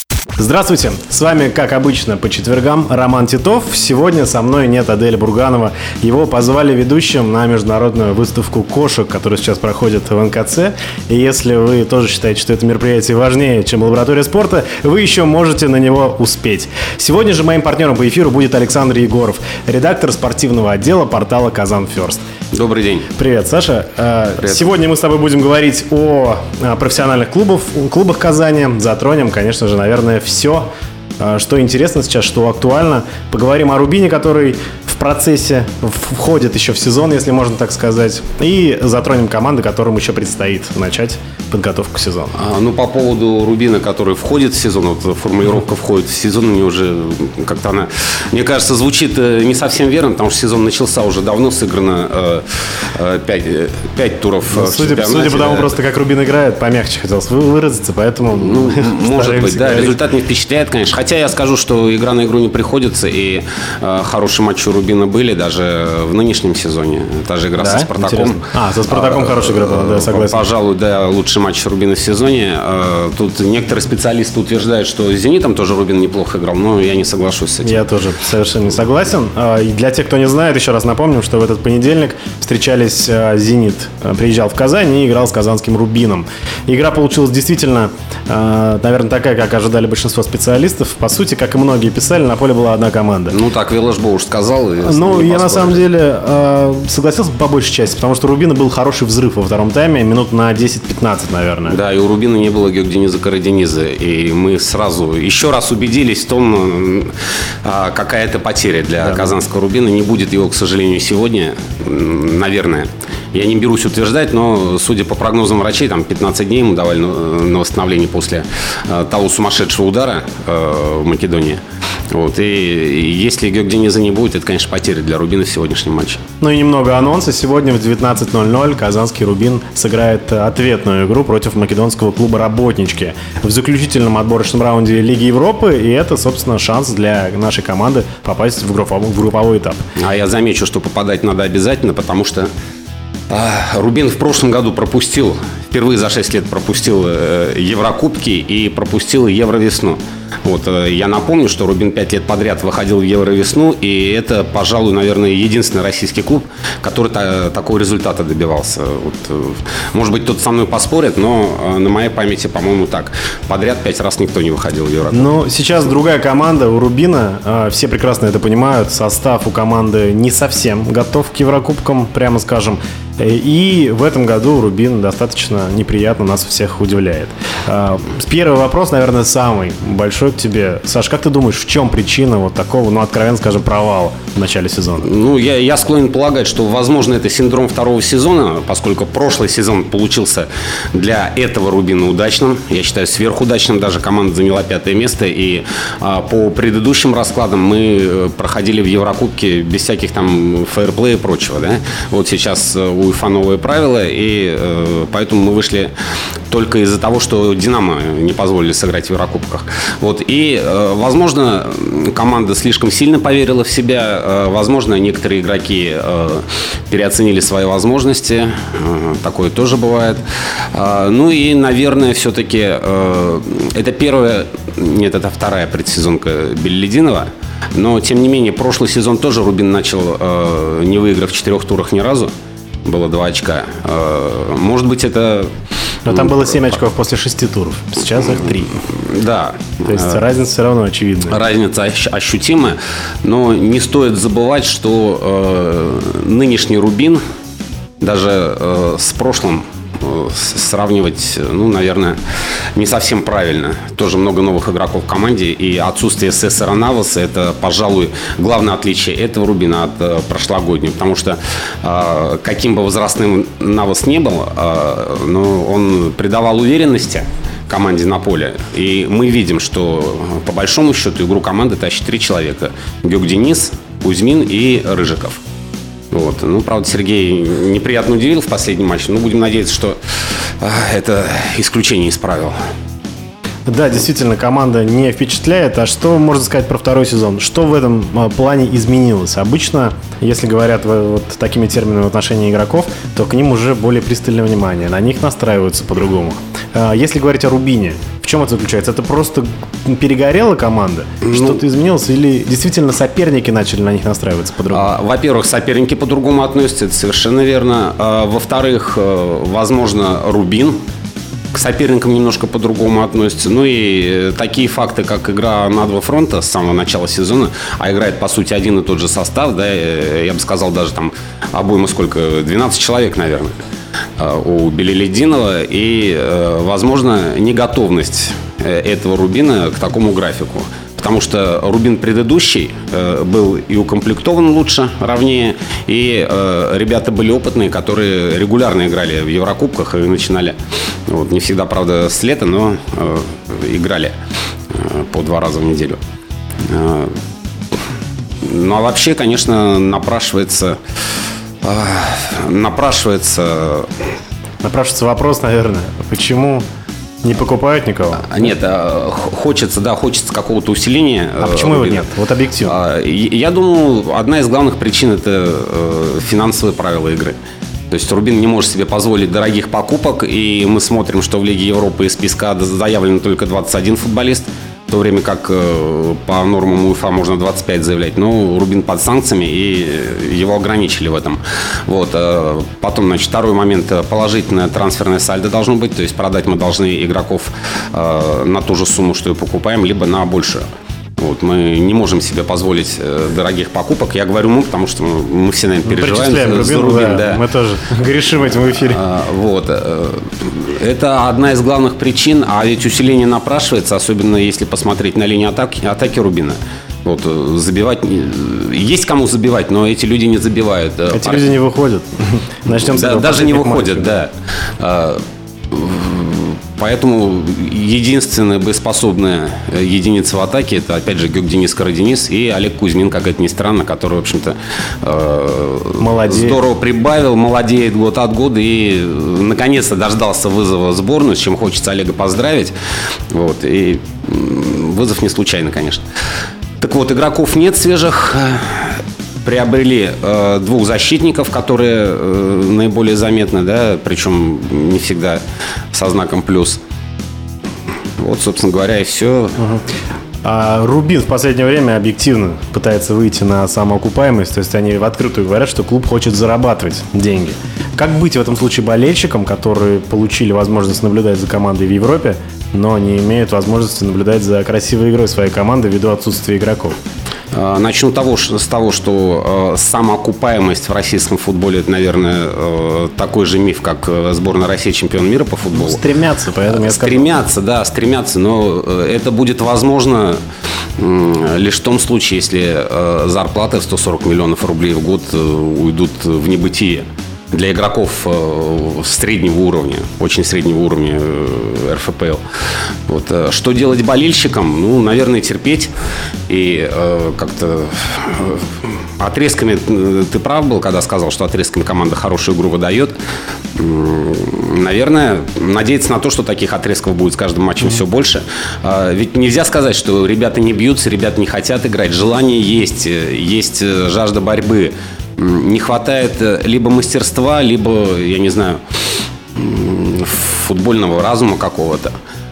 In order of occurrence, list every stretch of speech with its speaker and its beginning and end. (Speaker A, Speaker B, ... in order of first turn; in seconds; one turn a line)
Speaker A: 0.4-22.2
Speaker B: 22.5-23.1
Speaker A: 23.1-30.7
Speaker B: 24.4-24.7
Speaker A: 31.2-42.3
Speaker B: 42.3-55.7
Speaker A: 54.5-60.0
Speaker B: 58.3-77.8
Speaker A: 67.6-70.5
Speaker A: 77.6-93.4
Speaker B: 93.3-95.8
Speaker A: 94.8-101.8
Speaker B: 101.7-126.2
Speaker A: 109.0-109.4
Speaker A: 126.4-139.8
Speaker B: 140.0-142.5
Speaker B: 143.3-165.4
Speaker A: 165.1-185.1
Speaker B: 185.0-205.9
Speaker B: 206.5-232.3
Speaker B: 232.8-236.6
Speaker A: 236.1-238.8
Speaker B: 238.8-240.2
Speaker A: 239.8-241.4
Speaker B: 241.3-247.2
Speaker B: 248.0-275.4
Speaker B: 276.1-282.6
Speaker A: 283.7-304.9
Speaker B: 301.2-301.6
Speaker B: 304.7-310.8
Speaker B: 311.5-323.6
Speaker B: 324.2-344.2
Speaker B: 344.7-346.0
Speaker B: 346.6-347.2
Speaker B: 348.4-350.8
Speaker B: 351.6-354.2
Speaker A: 354.6-356.6
Speaker A: 357.2-358.4
Speaker B: 358.2-362.1
Speaker A: 361.4-362.8
Speaker B: 362.6-367.4
Speaker B: 367.9-390.6
Speaker B: 391.2-397.4
Speaker A: 395.9-399.0
Speaker B: 398.4-411.4
Speaker A: 411.1-414.2
Speaker B: 412.7-432.7
Speaker A: 426.0-426.6
Speaker B: 433.3-436.1
Speaker B: 436.8-446.8
Speaker B: 448.2-449.6
Speaker A: 450.4-467.0
Speaker B: 467.5-476.0
Speaker A: 475.7-477.3
Speaker B: 476.7-480.4
Speaker B: 481.0-495.9
Speaker B: 496.5-503.2
Speaker B: 503.8-522.1